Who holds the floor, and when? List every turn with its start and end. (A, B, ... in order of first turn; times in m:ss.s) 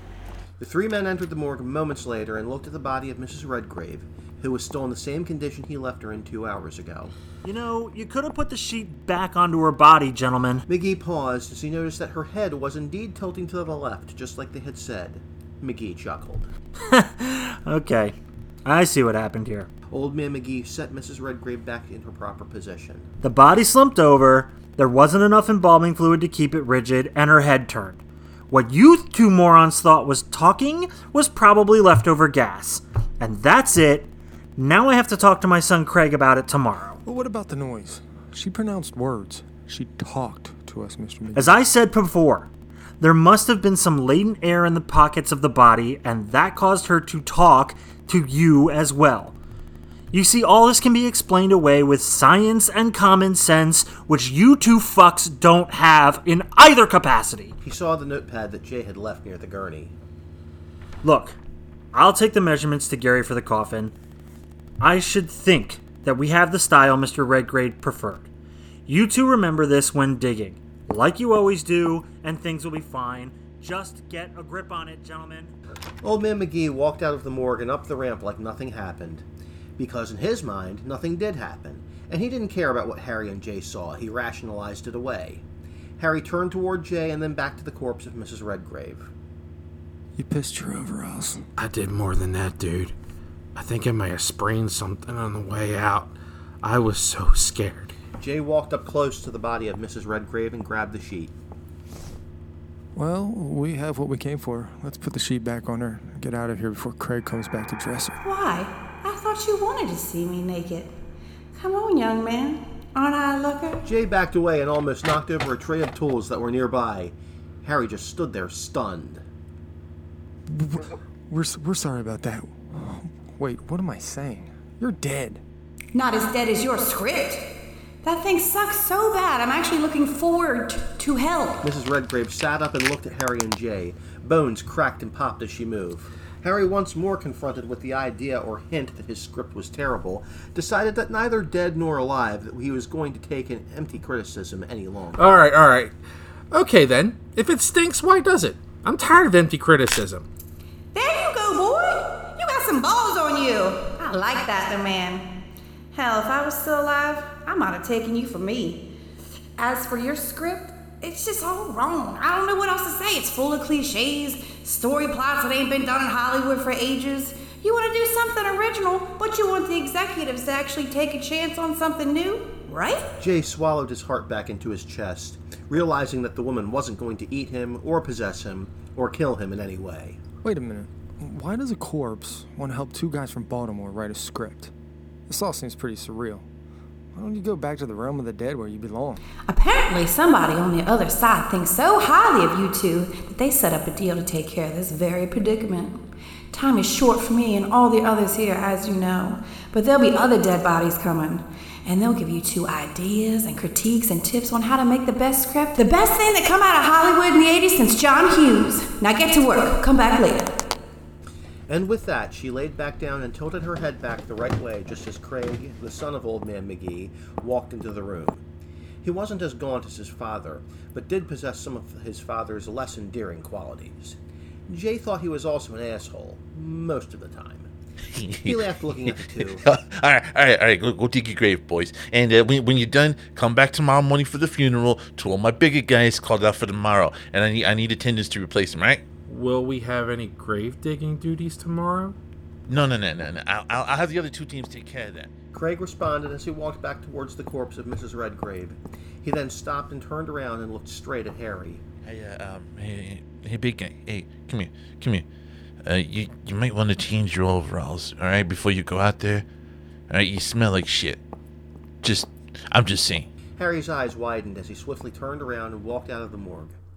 0:00.6-0:07.1 A
0:07.4-0:10.6 B
0:10.7-0:16.5 A
0:16.8-0:19.7 B
0:19.9-0:23.1 A
0:23.2-0:37.0 B
0:37.0-0:41.6 C
0:41.3-0:49.4 B
0:50.1-0:57.5 B
0:57.6-0:59.9 A
1:01.0-1:01.4 B
1:01.9-1:03.9 B
1:04.8-1:08.3 B
1:08.8-1:15.5 B
1:16.0-1:19.2 A
1:19.8-1:25.4 A
1:26.0-1:29.1 A
1:30.2-1:31.4 C
1:31.6-1:32.9 D
1:33.5-1:37.9 D
1:38.2-1:41.3 A
1:42.9-1:48.2 C
1:48.2-1:50.9 E
1:51.5-1:53.8 E
1:53.8-1:59.2 A
2:00.5-2:05.4 C
2:05.9-2:07.5 E
2:08.0-2:11.6 E
2:11.6-2:25.3 A
2:25.1-2:26.0 D
2:26.5-2:30.3 D
2:30.9-2:35.3 E
2:35.9-2:38.9 E
2:39.6-2:53.1 E
2:53.2-3:00.2 A
3:00.4-3:04.7 C
3:05.3-3:06.5 C
3:07.1-3:09.2 C
3:09.5-3:16.0 E
3:16.5-3:30.5 E
3:31.7-3:38.4 A
3:39.0-3:44.2 A
3:44.7-3:47.7 A
3:48.1-3:59.0 F
3:48.4-3:49.6 A
3:59.2-4:02.2 D
4:02.7-4:05.3 F
4:05.5-4:11.8 A
4:12.0-4:15.3 F
4:15.8-4:19.5 F
4:20.1-4:21.2 F
4:22.0-4:23.3 F
4:23.6-4:26.8 A